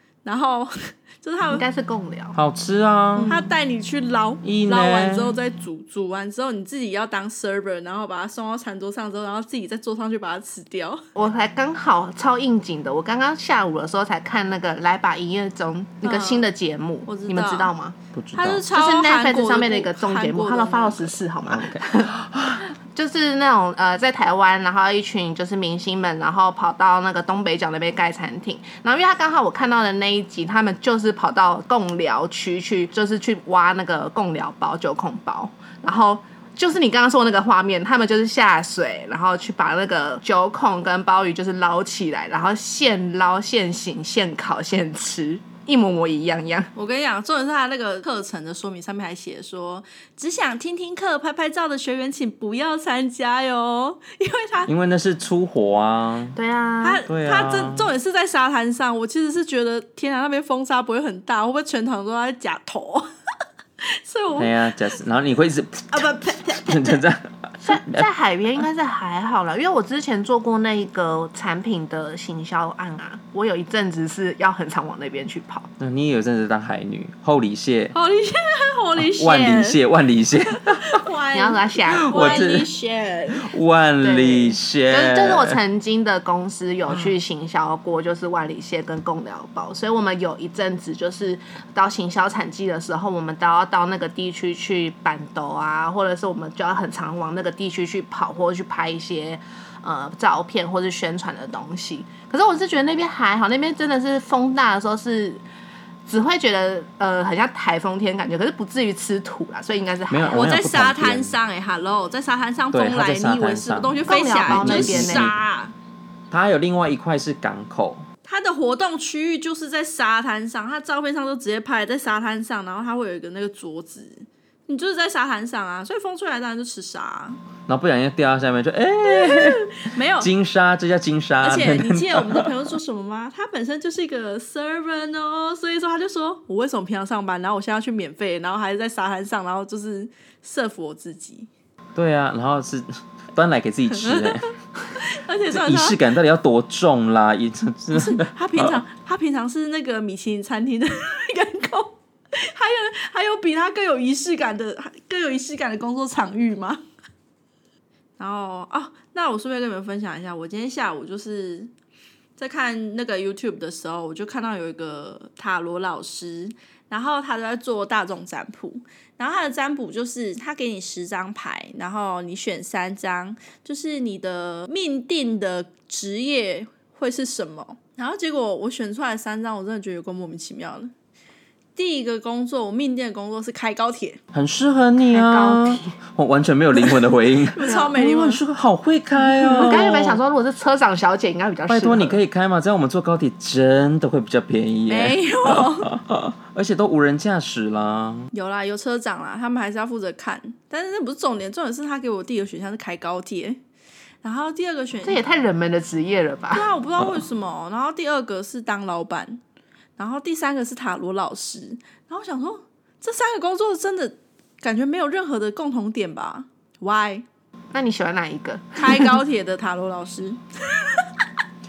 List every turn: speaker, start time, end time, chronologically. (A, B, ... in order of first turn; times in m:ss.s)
0:00.2-0:01.6 A
0:01.4-0:02.4 B
0:02.3-0:03.3 C
0:03.2-0:03.5 B
0:03.3-0:11.0 A
0:04.4-0:05.4 C
0:11.1-0:18.0 B
0:16.0-0:16.4 A
0:17.0-0:17.7 A
0:18.1-0:18.6 C
0:18.3-0:21.2 A
0:18.7-0:46.7 B
0:21.5-0:22.6 C
0:46.7-0:54.7 A
0:54.7-0:56.4 C
0:56.4-0:57.0 B
0:56.8-1:03.1 A
0:57.1-0:57.9 C
1:03.8-1:04.6 A
1:04.4-1:08.1 C
1:05.9-1:07.0 A
1:07.6-1:15.7 B
1:15.8-1:17.9 C
1:17.9-1:19.8 A
1:19.0-1:21.0 C
1:20.7-1:23.5 A
1:21.3-1:22.5 B
1:22.0-1:22.7 C
1:23.4-1:25.6 C
1:24.0-1:45.4 B
1:46.0-1:50.5 B
1:50.1-1:51.3 C
1:50.3-1:55.7 A
1:52.7-1:55.3 C
1:54.0-1:55.3 B
1:56.3-1:58.1 C
1:58.2-2:07.4 A
2:07.7-2:12.5 C
2:09.0-2:10.3 A
2:11.4-2:21.5 A
2:22.0-2:24.5 C
2:23.9-2:26.0 A
2:25.5-2:28.8 C
2:27.9-2:36.8 A
2:38.2-2:41.7 A
2:42.4-3:00.9 A
3:01.8-3:04.2 A
3:04.3-3:10.2 C
3:05.1-3:06.0 B
3:07.5-3:08.4 A
3:07.6-3:08.0 B
3:09.4-3:12.2 B
3:11.7-3:18.3 C
3:14.9-3:15.9 A
3:18.3-3:23.6 A
3:24.2-3:25.2 A
3:25.0-3:26.7 B
3:26.5-3:29.4 A
3:30.0-3:37.2 A
3:37.7-3:39.2 B
3:38.8-3:41.1 A